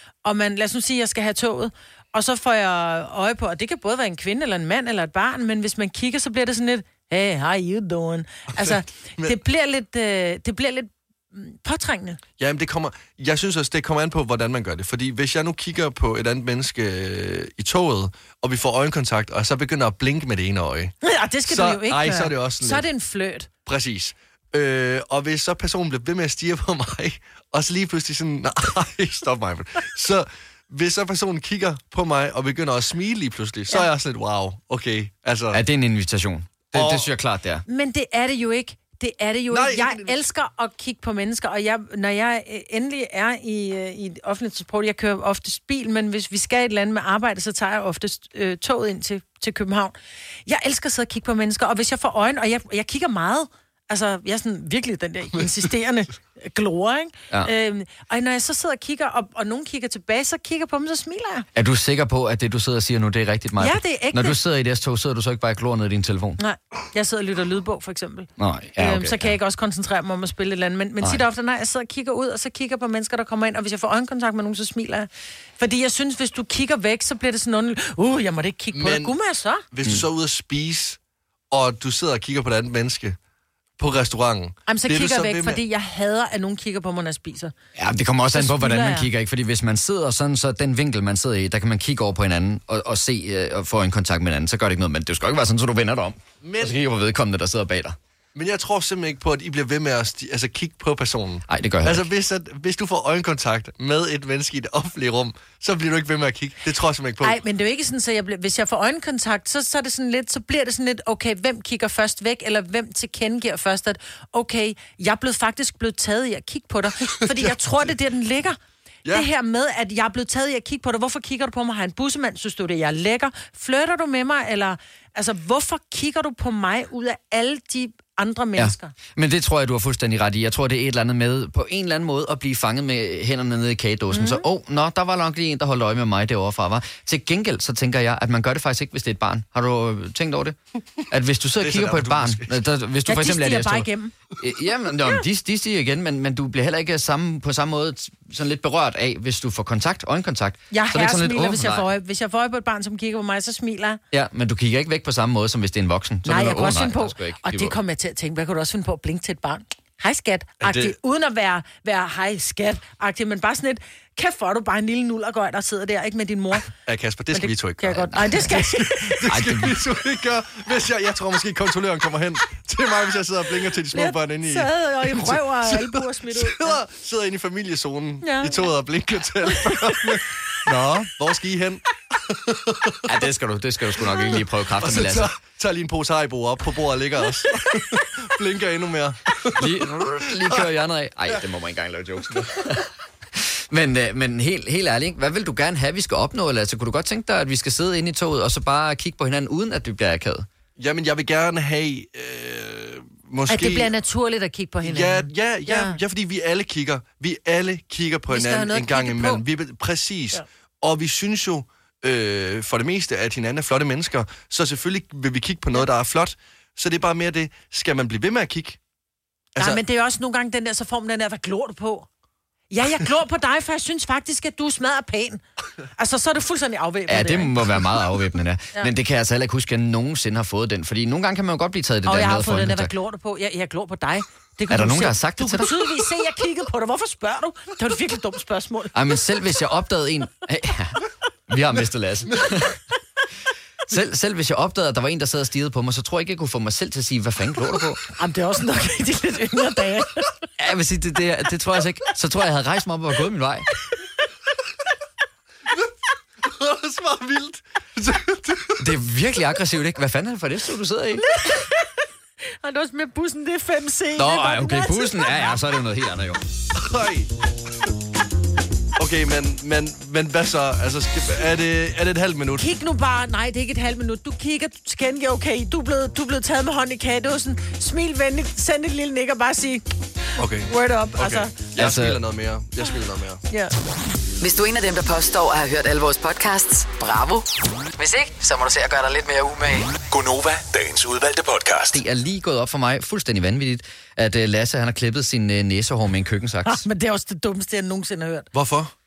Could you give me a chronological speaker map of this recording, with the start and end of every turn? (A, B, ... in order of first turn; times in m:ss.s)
0:00.2-0:12.2 A
0:08.5-0:09.4 B
0:12.4-0:20.9 B
0:21.0-0:23.5 A
0:21.5-0:22.8 B
0:23.6-0:35.6 B
0:35.5-0:37.6 C
0:36.7-0:37.1 B
0:37.7-1:01.5 A
0:39.5-0:40.2 B
1:01.5-1:06.4 C
1:03.6-1:04.4 A
1:06.4-1:19.6 A
1:08.4-1:09.3 C
1:18.7-1:19.1 B
1:19.7-1:21.0 B
1:21.5-1:23.2 B
1:23.8-1:25.6 B
1:24.7-1:27.5 A
1:27.8-1:38.0 C
1:28.3-1:29.1 A
1:36.4-1:36.8 B
1:38.3-1:47.4 B
1:41.5-1:42.1 C
1:47.2-1:58.6 A
1:57.3-1:57.9 B
1:59.1-2:08.9 A
2:08.6-2:20.6 C
2:14.1-2:14.4 A
2:21.1-2:23.9 C
2:21.6-2:22.6 B
2:23.0-2:24.1 A
2:24.4-2:31.9 C
2:30.7-2:34.0 A
2:34.1-2:37.8 C
2:36.2-2:46.7 A
2:40.6-2:40.9 B
2:46.8-3:03.1 B
2:47.3-2:49.2 A
2:49.3-2:49.8 C
2:53.9-2:56.8 A
2:58.2-2:58.7 A
2:59.5-3:00.2 A
3:00.7-3:01.0 C
3:03.0-3:05.3 C
3:04.3-3:10.6 B
3:09.5-3:20.5 C
3:20.8-3:23.9 B
3:23.5-3:26.0 A
3:24.8-3:38.8 B
3:28.3-3:29.4 A
3:39.6-3:39.8 B
3:39.6-3:42.1 A
3:42.7-3:45.4 A
3:46.0-3:47.6 A
3:47.1-3:52.9 C
3:52.0-3:58.9 A
3:54.7-3:55.8 C
3:58.9-4:02.8 C
4:03.9-4:08.0 C
4:08.2-4:10.4 A
4:10.6-4:13.7 C
4:16.4-4:18.8 B
4:18.8-4:21.4 C
4:21.3-4:21.8 A
4:22.6-4:25.5 A
4:24.2-4:26.4 C
4:26.7-4:27.3 B
4:29.0-4:32.7 B
4:32.6-4:39.8 A
4:40.4-4:43.4 B
4:40.7-4:41.5 A
4:41.8-4:42.2 C
4:43.5-4:43.7 A
4:44.4-4:50.0 D
4:50.1-4:52.0 E
4:51.9-4:56.8 C
4:56.6-4:58.5 A
4:58.5-4:58.9 B